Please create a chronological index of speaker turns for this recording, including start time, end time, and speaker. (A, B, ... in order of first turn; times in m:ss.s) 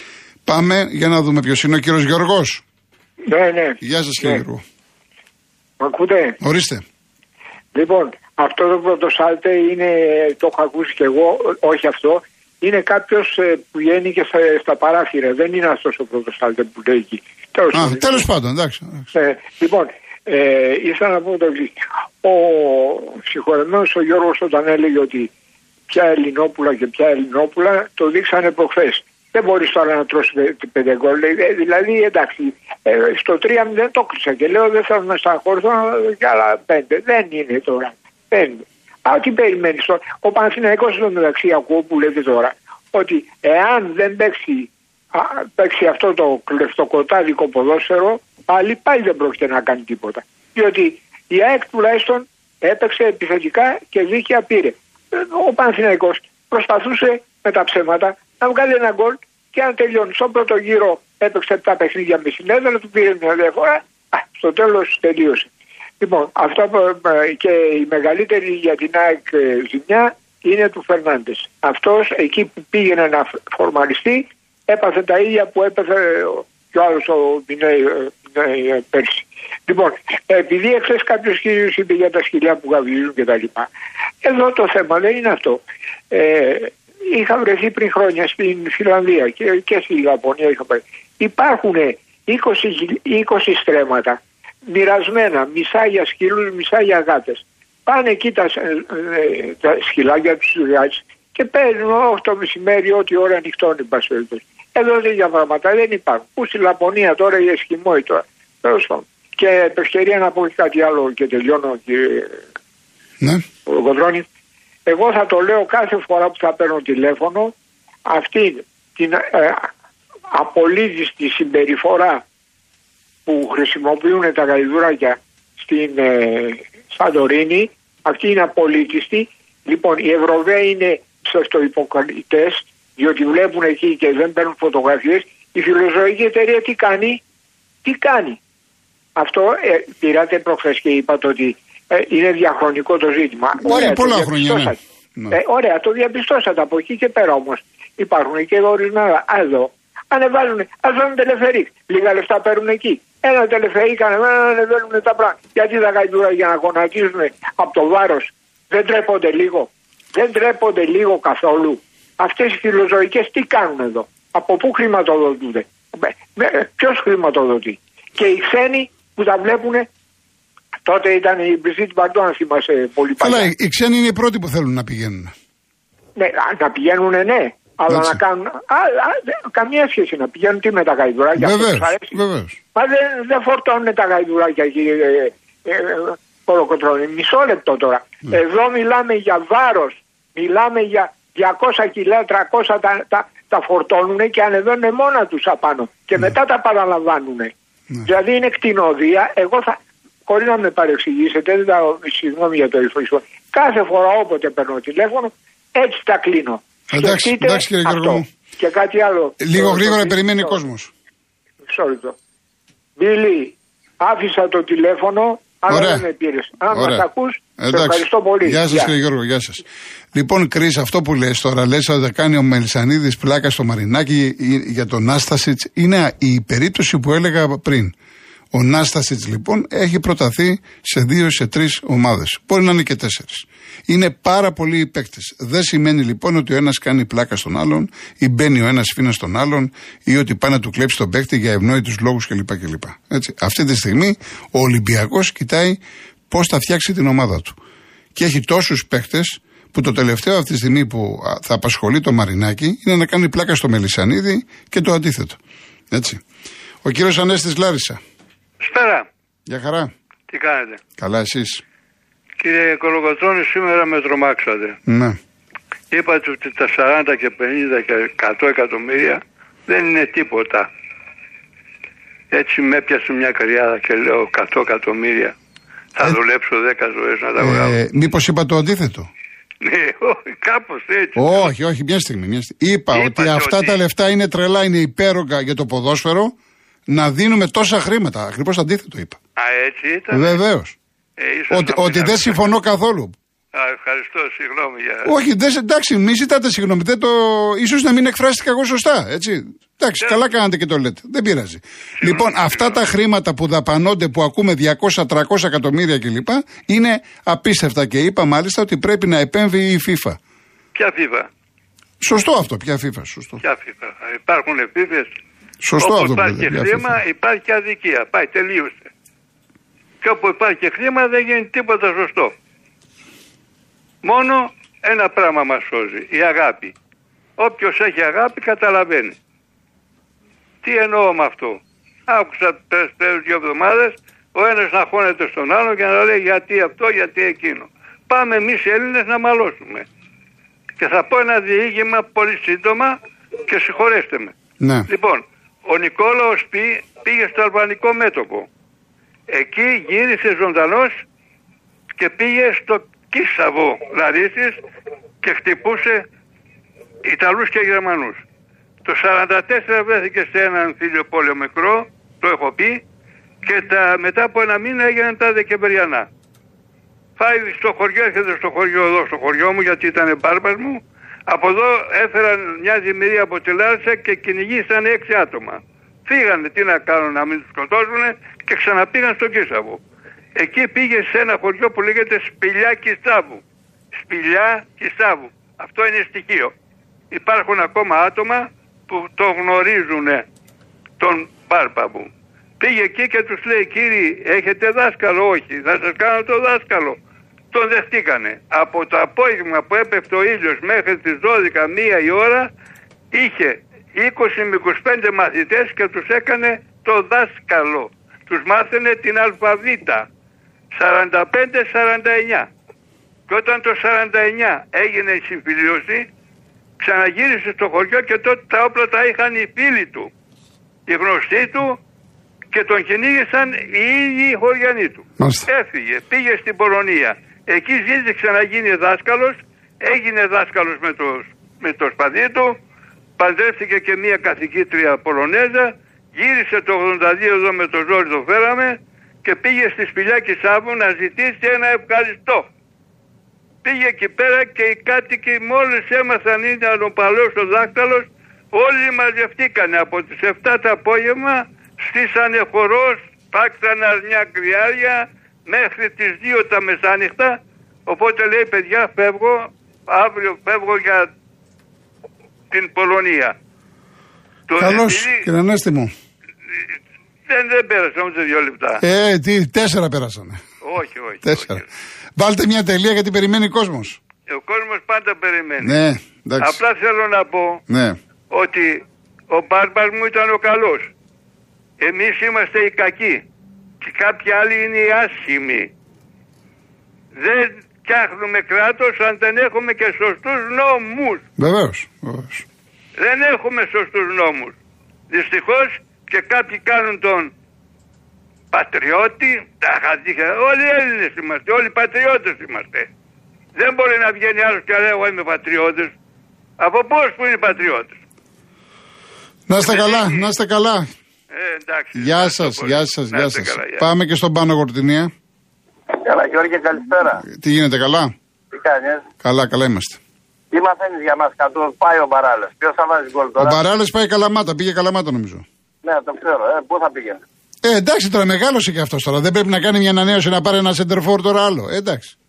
0:00.4-0:02.6 A
0:03.3-0:04.4 B
0:03.8-0:04.6 A
0:05.8-0:06.4 B
0:06.4-0:06.8 A
0:07.7-0:18.3 B
0:17.7-0:19.1 A
0:19.1-0:25.3 B
0:25.9-1:05.5 B
1:06.0-1:23.7 B
1:24.2-1:52.4 B
1:53.6-1:54.2 B
1:54.8-1:57.5 B
1:58.0-1:59.7 B
2:00.3-2:02.2 B
2:03.2-2:17.2 B
2:17.8-2:18.4 B
2:19.2-2:49.9 B
2:23.6-2:25.4 A
2:50.8-2:53.5 B
2:53.2-2:55.3 A
2:56.2-3:02.1 B
2:57.9-2:58.2 A
3:01.3-3:02.6 A
3:02.7-3:17.5 B
3:18.0-3:30.6 B
3:26.9-3:28.2 A
3:29.4-3:30.9 A
3:31.6-3:32.1 B
3:33.0-3:38.9 B
3:35.7-3:36.1 A
3:36.7-3:37.1 A
3:37.6-3:47.9 A
3:48.5-4:05.8 A
4:06.3-4:07.6 A
4:08.1-4:15.4 A
4:15.9-4:16.2 A
4:16.8-4:18.0 A
4:18.6-4:19.1 C
4:19.5-4:19.9 A
4:20.3-4:20.8 C
4:21.0-4:21.6 A
4:22.4-4:24.8 C
4:24.9-4:25.2 A
4:25.9-4:30.7 C
4:32.3-4:35.4 C
4:35.9-4:37.8 C
4:37.4-4:39.1 A
4:39.6-4:41.5 C
4:41.2-4:46.3 A
4:42.9-4:43.8 C
4:46.9-4:49.2 A
4:49.4-4:50.4 C
4:50.1-4:50.8 A
4:51.2-4:52.5 C
4:51.5-4:53.1 A
4:53.5-4:55.1 C
4:55.0-5:10.2 A
5:02.0-5:02.8 C
5:10.7-5:11.3 C
5:12.0-5:13.4 A
5:13.4-5:15.1 C
5:15.6-5:17.0 A
5:15.8-5:18.9 C
5:20.0-5:22.3 C
5:24.0-5:26.7 C
5:27.4-5:29.2 C
5:30.6-5:39.8 C
5:40.8-5:44.3 C
5:44.6-5:44.9 A
5:44.9-5:48.5 C
5:49.3-5:51.0 C
5:52.0-5:54.6 C
5:55.2-5:56.0 C
5:57.0-5:58.2 C
5:58.8-6:02.8 C
6:03.4-6:06.1 C
6:07.2-6:19.8 C
6:20.4-6:23.4 C
6:24.0-6:26.5 C
6:27.1-6:30.2 C
6:31.0-6:37.0 C
6:37.5-6:42.5 C
6:43.1-6:50.1 C
6:50.7-6:52.5 C
6:53.3-6:56.1 C
6:56.8-7:00.1 C
7:00.9-7:01.8 C
7:02.5-7:12.6 C
7:05.2-7:05.5 A
7:13.2-7:22.5 C
7:23.6-7:41.1 C
7:42.5-7:43.3 C
7:44.5-7:45.2 C
7:44.6-7:45.9 A
7:47.3-7:48.8 C
7:48.8-7:50.4 A
7:50.6-7:51.6 C
7:51.2-7:51.6 A
7:52.2-7:54.0 A
7:54.3-7:55.8 C
7:55.6-7:56.6 A
7:56.4-7:57.6 C
7:57.7-7:58.0 A
7:58.3-8:00.9 C
8:01.8-8:03.2 C
8:03.8-8:05.7 C
8:07.2-8:11.2 C
8:11.4-8:12.4 A
8:13.0-8:14.5 C
8:15.1-8:17.3 C
8:18.5-8:22.9 C
8:23.5-8:25.9 C
8:26.6-8:28.0 C
8:29.5-8:30.9 A
8:29.6-8:30.3 C
8:31.3-8:33.8 C
8:31.9-8:35.1 A
8:35.9-8:37.2 D
8:37.2-8:38.1 A
8:38.5-8:39.0 D
8:39.2-8:40.0 A
8:40.5-8:43.6 D
8:43.4-8:45.4 A
8:45.8-8:47.2 D
8:47.6-8:52.1 A